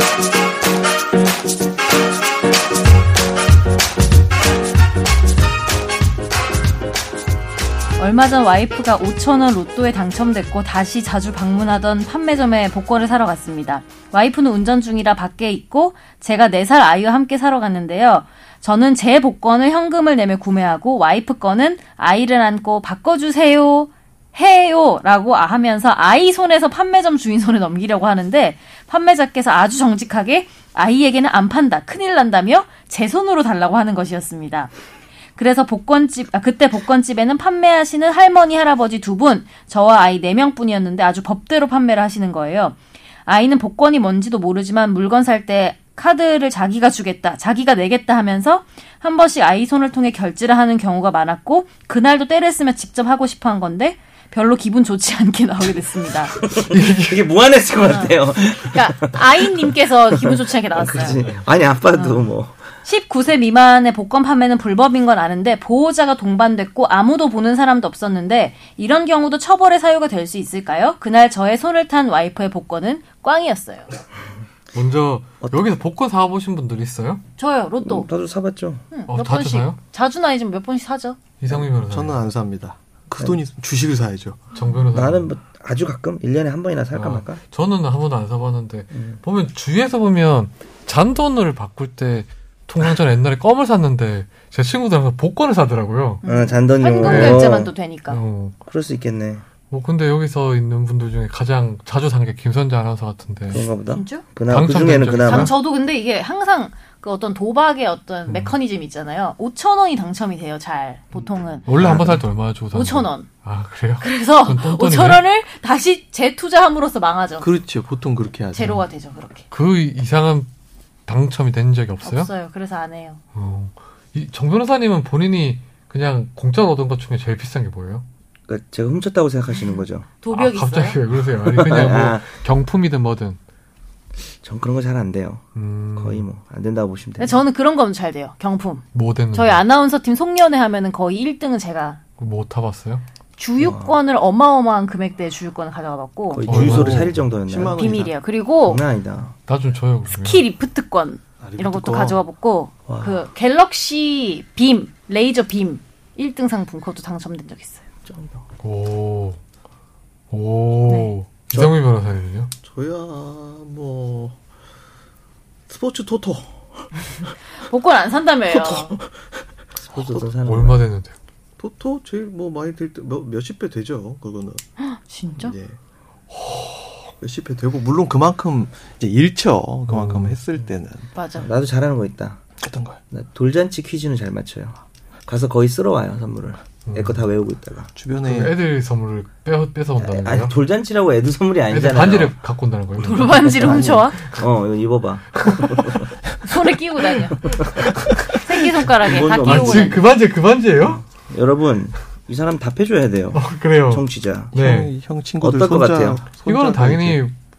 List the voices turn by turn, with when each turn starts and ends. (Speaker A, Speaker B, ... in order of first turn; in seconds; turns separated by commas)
Speaker A: 8.0-34.7, Speaker A: 35.4-56.3, Speaker B: 56.3-62.5, Speaker C: 56.7-57.2, Speaker A: 57.8-61.2, Speaker A: 61.9-62.3, Speaker A: 62.8-73.9, Speaker C: 74.7-77.2, Speaker B: 75.4-75.7, Speaker A: 77.4-78.1, Speaker B: 77.8-78.8, Speaker A: 78.9-81.2, Speaker C: 79.1-79.8, Speaker C: 81.4-82.3, Speaker D: 81.9-84.4, Speaker C: 84.5-85.3, Speaker B: 84.9-87.4, Speaker C: 86.9-96.2, Speaker B: 88.9-89.2, Speaker A: 96.2-98.2, Speaker B: 96.2-97.7, Speaker C: 97.0-97.4, Speaker C: 98.1-98.6, Speaker B: 98.7-99.4, Speaker C: 99.7-103.7, Speaker B: 103.5-105.5, Speaker A: 103.9-104.3, Speaker C: 104.5-105.5, Speaker A: 105.2-111.7, Speaker C: 108.3-108.5, Speaker C: 111.7-115.2, Speaker B: 111.8-112.3, Speaker A: 112.7-113.3, Speaker A: 114.0-117.5, Speaker D: 117.4-118.8, Speaker A: 118.5-119.5, Speaker C: 119.5-120.5, Speaker C: 121.1-122.3, Speaker A: 122.0-123.2, Speaker C: 123.3-128.1, Speaker B: 128.5-130.1, Speaker A: 130.2-131.0, Speaker C: 130.3-133.4, Speaker B: 131.3-132.3, Speaker B: 134.4-137.4, Speaker C: 135.6-136.2, Speaker A: 137.2-142.0, Speaker C: 138.9-139.6, Speaker C: 142.2-143.0, Speaker A: 143.4-146.5, Speaker B: 143.6-144.0, Speaker B: 146.3-147.8, Speaker C: 146.5-147.2, Speaker D: 146.5-148.1, Speaker A: 147.7-148.8, Speaker B: 148.6-149.3, Speaker C: 149.5-150.4, Speaker A: 150.1-157.8, Speaker D: 151.4-152.2, Speaker B: 152.9-153.3, Speaker B: 158.1-158.4, Speaker C: 158.6-159.4, Speaker C: 160.3-162.5, Speaker D: 162.6-164.4, Speaker D: 165.7-166.6, Speaker A: 167.6-169.0, Speaker D: 168.5-169.2, Speaker B: 169.8-170.8, Speaker D: 169.9-170.3, Speaker C: 170.4-171.2, Speaker D: 171.6-174.6, Speaker A: 174.8-175.6, Speaker D: 175.4-175.8, Speaker C: 176.3-177.1, Speaker D: 177.2-181.1, Speaker C: 179.9-180.4, Speaker A: 181.2-181.5, Speaker B: 181.3-182.4, Speaker D: 182.6-183.0, Speaker B: 183.1-187.9, Speaker C: 186.9-187.2, Speaker D: 187.9-188.6, Speaker C: 188.2-190.6, Speaker B: 190.0-192.4, Speaker C: 191.7-193.9, Speaker A: 193.0-194.2, Speaker B: 193.3-196.1, Speaker C: 195.3-196.1, Speaker A: 196.4-197.4, Speaker B: 197.5-197.9, Speaker A: 198.3-200.0, Speaker B: 199.0-200.0, Speaker C: 199.4-201.0, Speaker B: 200.8-204.5, Speaker C: 203.3-204.9, Speaker D: 204.5-207.2, Speaker B: 205.4-206.3, Speaker C: 206.4-207.3